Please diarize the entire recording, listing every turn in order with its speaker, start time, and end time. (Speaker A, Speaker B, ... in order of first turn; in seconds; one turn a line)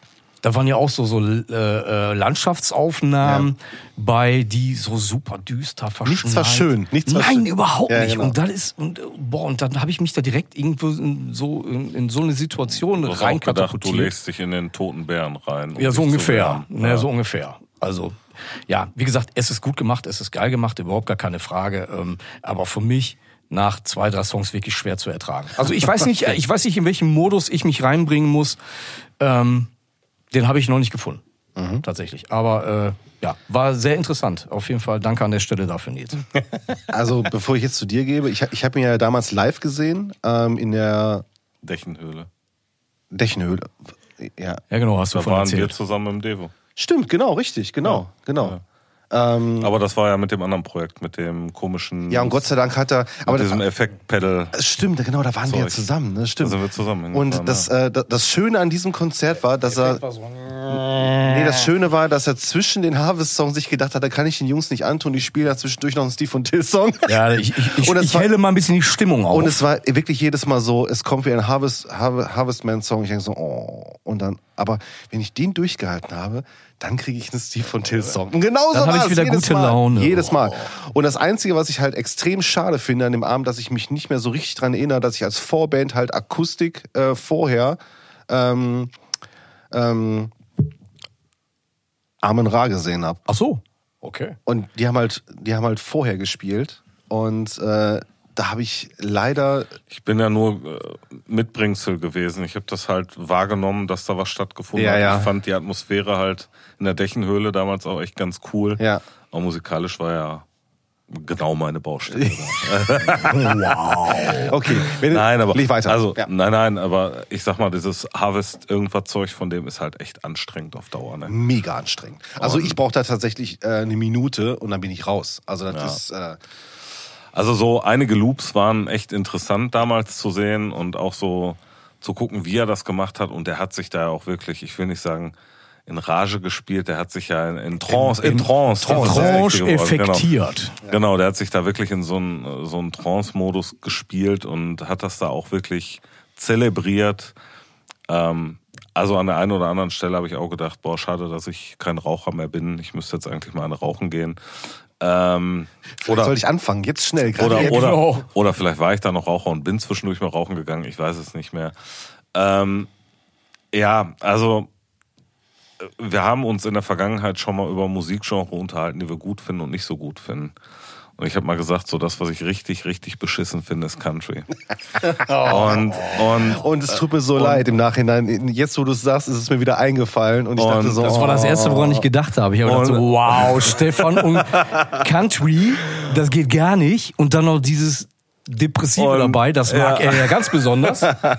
Speaker A: 0.4-14.1
Speaker B: 3.2-3.5
Speaker B: 6.0-8.4
Speaker C: 12.9-17.1
Speaker A: 15.8-28.6
Speaker A: 29.2-29.7
Speaker A: 30.3-31.2
Speaker B: 31.6-31.8
Speaker A: 31.8-36.2
Speaker B: 36.9-41.2
Speaker C: 41.6-42.3
Speaker B: 43.1-44.6
Speaker A: 44.7-45.8
Speaker C: 45.1-46.5
Speaker B: 46.8-48.6
Speaker C: 47.8-48.6
Speaker B: 49.1-49.7
Speaker C: 49.6-52.5
Speaker B: 52.1-53.6
Speaker C: 53.2-54.6
Speaker B: 54.5-60.0
Speaker C: 55.5-55.9
Speaker C: 56.4-57.7
Speaker A: 59.7-61.7
Speaker B: 60.7-68.3
Speaker A: 67.1-69.6
Speaker B: 69.3-88.9
Speaker A: 78.7-80.7
Speaker B: 89.7-90.3
Speaker B: 92.2-93.2
Speaker A: 93.3-94.4
Speaker B: 94.5-99.7
Speaker C: 99.9-110.4
Speaker B: 104.7-105.3
Speaker C: 111.1-121.3
Speaker A: 113.2-114.5
Speaker B: 114.3-116.3
Speaker B: 121.3-126.4
Speaker C: 122.4-122.8
Speaker C: 125.7-126.0
Speaker C: 127.3-135.3
Speaker C: 135.9-140.3
Speaker A: 137.8-140.8
Speaker B: 138.8-139.5
Speaker C: 140.8-147.3
Speaker C: 148.1-154.4
Speaker C: 155.0-156.3
Speaker B: 156.1-157.9
Speaker C: 157.3-161.7
Speaker A: 157.4-158.3
Speaker C: 162.3-162.9
Speaker C: 163.7-164.7
Speaker C: 165.8-170.5
Speaker C: 171.2-174.5
Speaker A: 175.1-176.2
Speaker C: 175.4-176.6
Speaker B: 176.5-182.1
Speaker A: 177.3-177.6
Speaker C: 180.6-181.1
Speaker A: 181.0-191.1
Speaker C: 182.6-183.8
Speaker C: 188.9-190.7